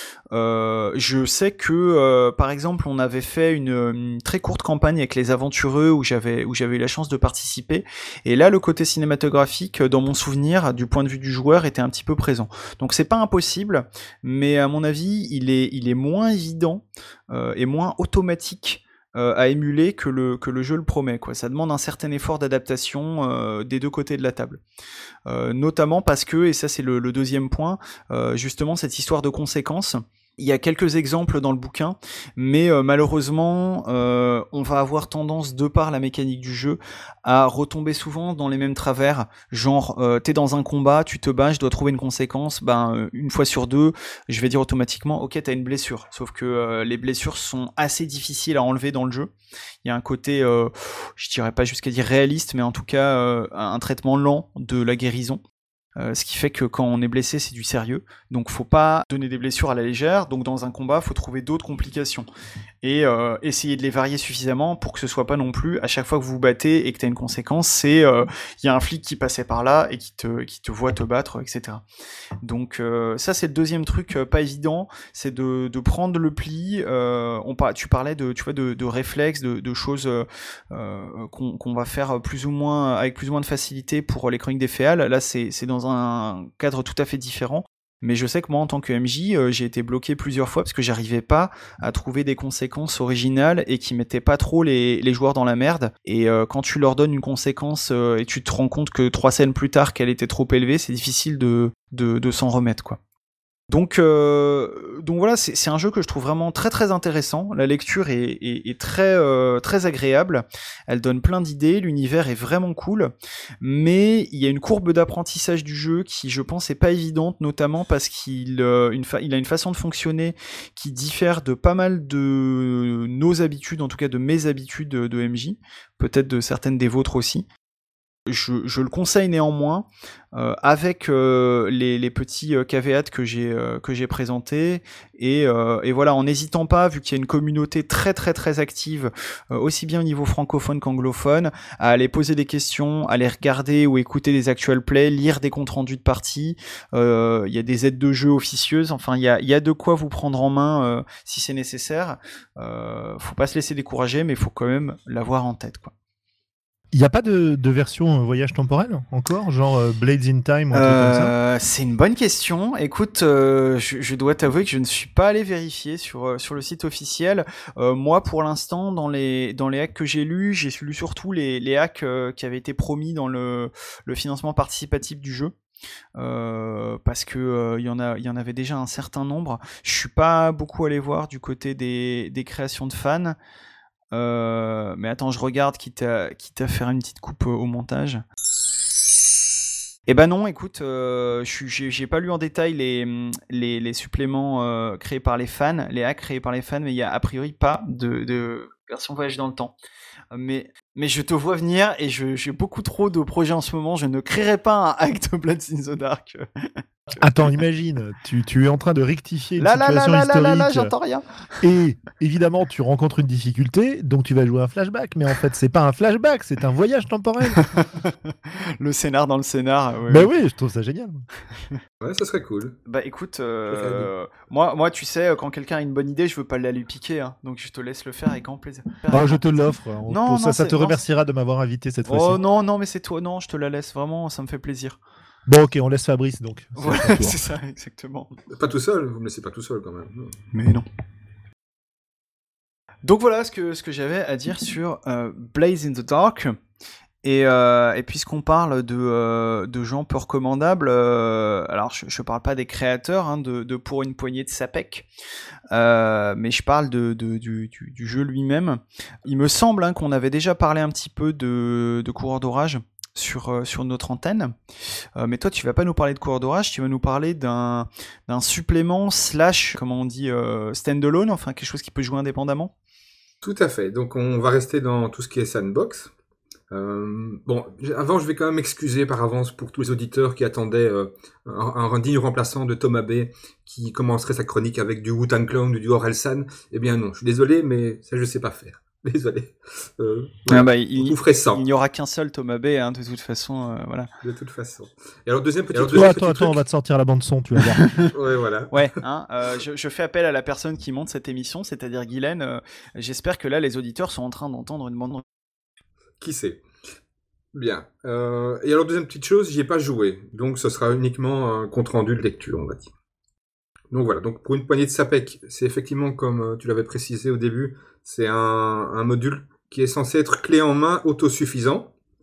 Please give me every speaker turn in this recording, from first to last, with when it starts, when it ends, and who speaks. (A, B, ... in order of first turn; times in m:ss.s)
0:00.3-0:24.6 A
0:25.3-0:49.3 A
0:49.8-0:55.4 A
0:56.0-1:02.3 A
1:02.8-1:11.8 A
1:12.4-1:43.0 A
1:43.7-2:07.4 A
2:08.3-2:35.9 A
2:36.9-2:41.3 B
2:40.7-2:55.5 A
2:56.2-3:03.4 A
3:04.1-3:08.2 A
3:10.1-3:19.7 A
3:20.3-3:26.4 A
3:27.2-3:30.9 B
3:29.6-3:31.2 A
3:31.6-3:37.6 B
3:37.5-3:40.3 A
3:40.1-3:41.2 B
3:42.0-3:42.8 C
3:42.8-3:49.4 A
3:43.7-3:44.1 C
3:49.1-3:52.4 B
3:50.1-3:51.0 A
3:52.0-3:55.0 A
3:55.5-3:57.4 B
3:56.8-3:58.3 A
3:58.5-4:00.4 C
4:00.5-4:00.9 A
4:03.0-4:06.6 A
4:07.2-4:15.1 A
4:15.7-4:24.5 A
4:25.2-4:32.7 A
4:33.4-4:36.1 C
4:36.7-4:51.6 C
4:50.5-4:54.1 A
4:54.2-4:56.6 C
4:55.7-4:56.1 A
4:55.9-4:58.0 B
4:57.8-4:58.1 A
4:58.1-4:58.8 C
4:58.7-5:05.2 A
5:06.2-5:06.6 C
5:07.5-5:12.9 C
5:13.9-5:21.9 C